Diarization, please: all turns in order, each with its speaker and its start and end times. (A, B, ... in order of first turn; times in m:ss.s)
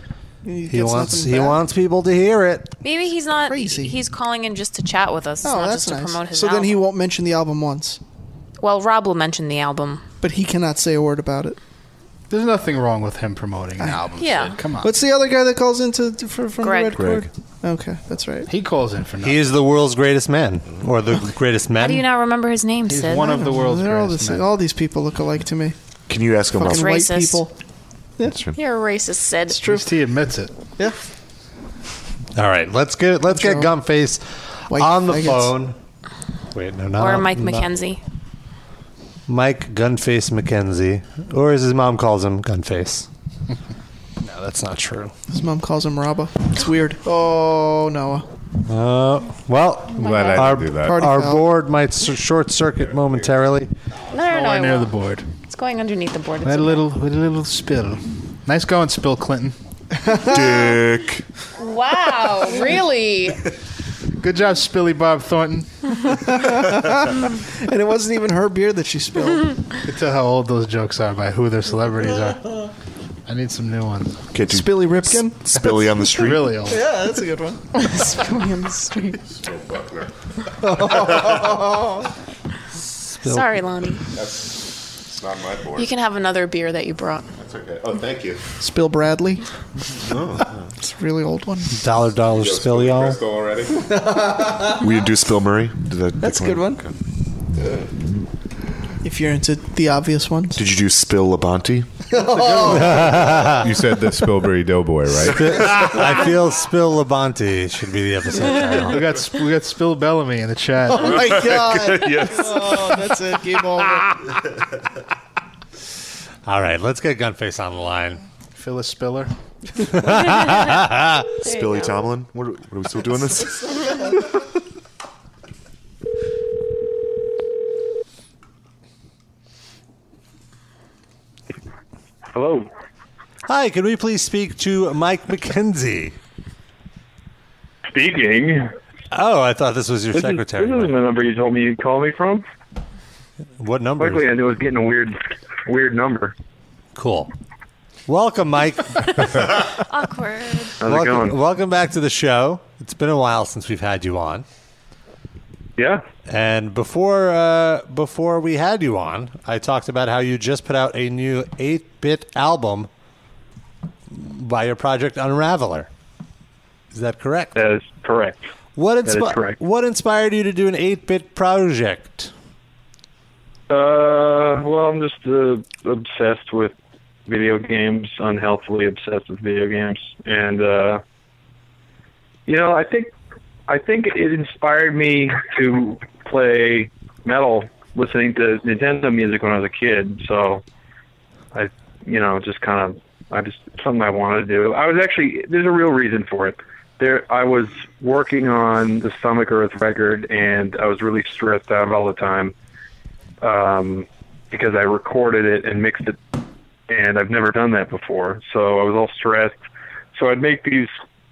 0:00.4-0:01.6 A
0:00.7-0:02.7 B
0:02.8-0:06.8 C
0:03.5-0:04.0 A
0:05.4-0:08.0 A
0:08.6-0:10.0 C
0:10.2-0:11.6 A
0:12.3-0:14.9 D
0:14.2-0:14.6 C
0:14.8-0:18.5 A
0:16.6-0:17.0 C
0:17.0-0:17.3 E
0:18.5-0:19.4 D
0:19.2-0:22.0 B
0:21.8-0:23.3 C
0:22.9-0:24.5 D
0:23.2-0:25.7 A
0:26.1-0:26.9 E
0:26.5-0:27.5 A
0:26.7-0:27.4 C
0:28.3-0:28.6 E
0:28.5-0:29.6 C
0:29.5-0:29.9 A
0:29.7-0:30.5 D
0:32.4-0:35.8 B
0:33.3-0:33.7 A
0:34.7-0:35.6 A
0:36.5-0:37.7 B
0:37.0-0:38.0 C
0:39.3-0:43.1 B
0:44.2-0:45.1 B
0:45.3-0:48.3 A
0:48.7-0:53.7 B
0:50.0-0:51.0 F
0:50.0-0:50.4 C
0:50.8-0:51.4 A
0:54.1-0:56.9 C
0:54.2-0:55.3 D
0:56.4-0:59.6 D
1:00.0-1:00.8 A
1:00.2-1:01.2 E
1:01.6-1:03.4 C
1:04.2-1:05.7 D
1:06.1-1:09.6 A
1:09.8-1:12.6 D
1:13.3-1:14.2 D
1:14.3-1:16.6 E
1:14.4-1:15.5 A
1:16.1-1:16.8 D
1:16.7-1:17.6 A
1:17.7-1:19.2 C
1:19.3-1:20.1 F
1:20.6-1:22.1 A
1:23.1-1:23.5 B
1:23.2-1:24.1 C
1:24.1-1:25.9 F
1:25.7-1:27.3 C
1:27.4-1:28.4 F
1:28.6-1:29.4 A
1:30.0-1:30.6 E
1:30.8-1:31.8 A
1:31.7-1:33.2 B
1:32.3-1:33.9 F
1:34.8-1:36.9 E
1:36.2-1:36.8 A
1:39.0-1:40.6 A
1:40.6-1:41.9 E
1:42.1-1:43.0 A
1:42.6-1:43.6 B
1:43.0-1:45.7 F
1:45.3-1:49.0 B
1:48.8-1:51.2 D
1:50.9-1:54.2 A
1:51.2-1:53.1 E
1:56.4-1:58.2 B
1:58.6-1:59.3 D
1:59.9-2:01.3 B
2:00.3-2:00.6 C
2:01.4-2:03.8 E
2:01.4-2:01.9 C
2:12.3-2:12.7 G
2:13.5-2:16.2 B
2:17.9-2:18.7 G
2:19.1-2:20.9 B
2:20.1-2:22.4 G
2:23.6-2:24.2 B
2:24.0-2:26.3 G
2:26.9-2:27.3 B
2:28.1-2:29.4 B
2:29.8-2:30.8 C
2:30.8-2:31.3 G
2:30.8-2:34.4 B
2:35.8-2:36.0 G
2:36.3-2:42.9 B
2:44.1-2:45.9 B
2:46.9-2:47.6 B
2:47.6-2:48.4 G
2:48.8-2:52.3 B
2:49.0-2:49.6 G
2:53.7-2:56.7 G
2:57.3-3:01.0 G
3:02.5-3:03.1 G
3:03.7-3:10.6 G
3:11.5-3:22.5 G
3:23.4-3:26.2 G
3:26.9-3:29.6 G
3:30.1-3:30.9 G